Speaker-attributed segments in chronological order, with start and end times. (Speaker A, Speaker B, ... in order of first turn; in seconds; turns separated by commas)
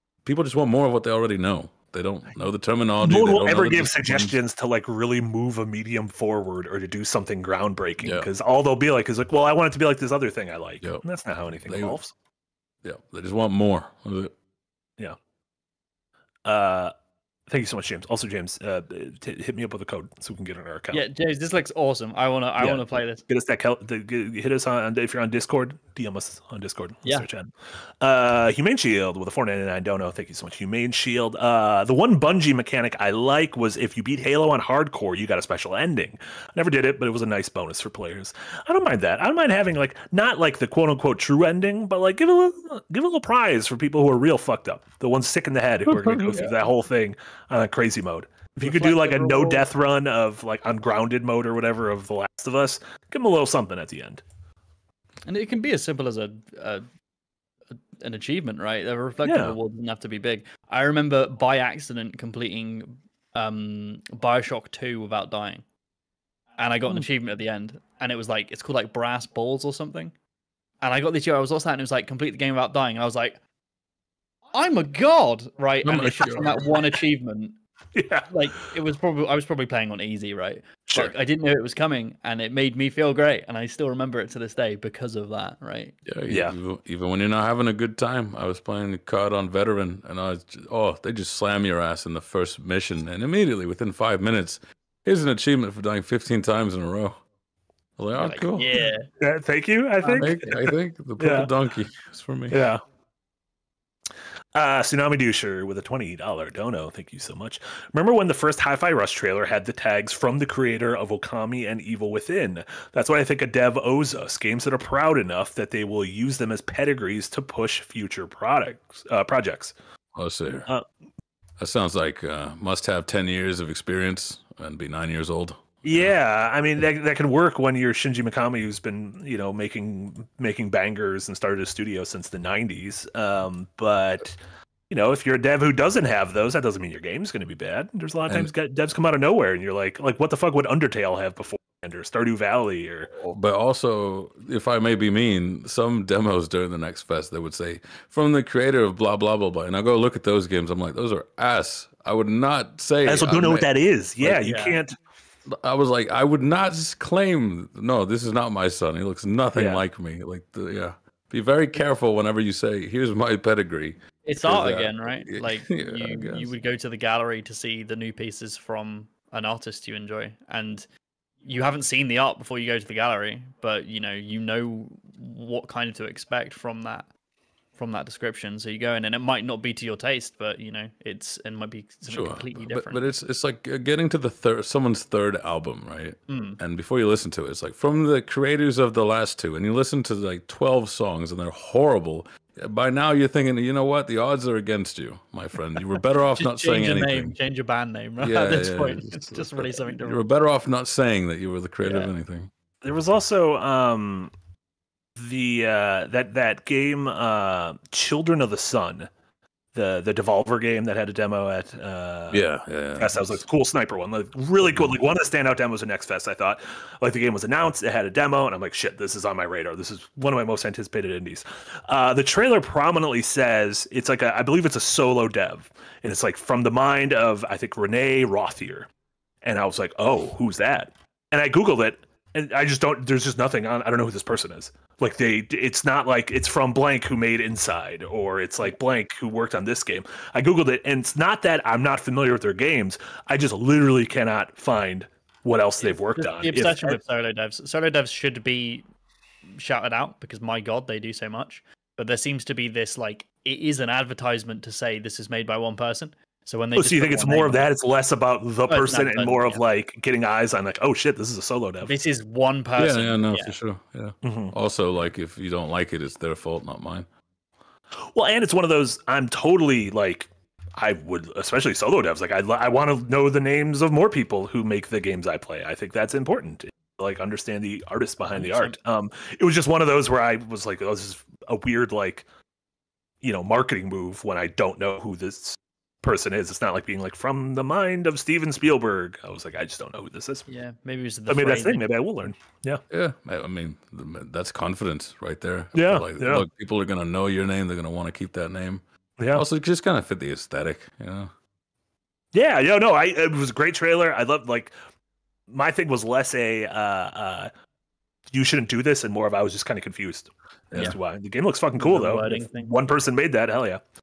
Speaker A: 0.2-4.3, Speaker B: 3.0-12.1, Speaker A: 8.0-8.3, Speaker A: 11.7-12.0, Speaker A: 12.8-14.3, Speaker B: 16.4-16.9, Speaker B: 17.5-21.1, Speaker C: 20.9-23.2, Speaker B: 22.6-54.2, Speaker A: 45.9-46.4, Speaker C: 46.1-46.6, Speaker C: 48.6-49.6, Speaker C: 55.2-56.9, Speaker C: 57.7-65.7, Speaker B: 59.2-59.6, Speaker C: 66.6-70.2, Speaker C: 70.8-73.4, Speaker C: 74.5-77.6, Speaker A: 75.8-76.7, Speaker B: 77.9-78.3, Speaker C: 78.3-86.0, Speaker A: 86.0-97.2, Speaker B: 86.3-86.5, Speaker A: 98.0-98.9, Speaker C: 98.1-99.1, Speaker B: 99.2-101.5, Speaker C: 100.0-100.3, Speaker A: 100.2-102.7, Speaker B: 102.5-102.8, Speaker B: 104.5-119.7, Speaker A: 120.2-120.7, Speaker A: 121.6-126.1, Speaker B: 125.8-134.4, Speaker B: 134.9-143.2, Speaker A: 143.2-153.7, Speaker B: 153.1-154.9, Speaker C: 154.4-154.8, Speaker A: 155.5-166.5, Speaker B: 159.6-159.8, Speaker C: 164.2-170.9, Speaker C: 171.4-177.1, Speaker C: 177.8-183.0, Speaker A: 182.1-197.4, Speaker C: 186.3-186.6, Speaker C: 196.4-200.2, Speaker A: 198.2-202.5, Speaker C: 201.8-202.1, Speaker B: 202.8-204.3, Speaker B: 205.2-209.1, Speaker B: 209.7-212.4, Speaker A: 212.3-213.4, Speaker B: 213.0-228.9, Speaker A: 214.6-215.0, Speaker B: 229.4-247.0, Speaker C: 245.8-248.9, Speaker C: 249.6-257.6, Speaker B: 256.8-261.9, Speaker C: 258.7-259.6, Speaker C: 261.9-263.6, Speaker A: 262.8-267.1, Speaker B: 264.2-264.5, Speaker B: 268.0-282.3, Speaker C: 278.3-278.8, Speaker B: 283.2-290.5, Speaker C: 290.5-291.9, Speaker B: 291.3-292.8, Speaker A: 292.9-301.3, Speaker B: 295.7-296.4, Speaker B: 299.2-299.4, Speaker B: 302.3-304.7, Speaker B: 305.5-307.5, Speaker B: 308.3-313.8, Speaker C: 311.8-312.7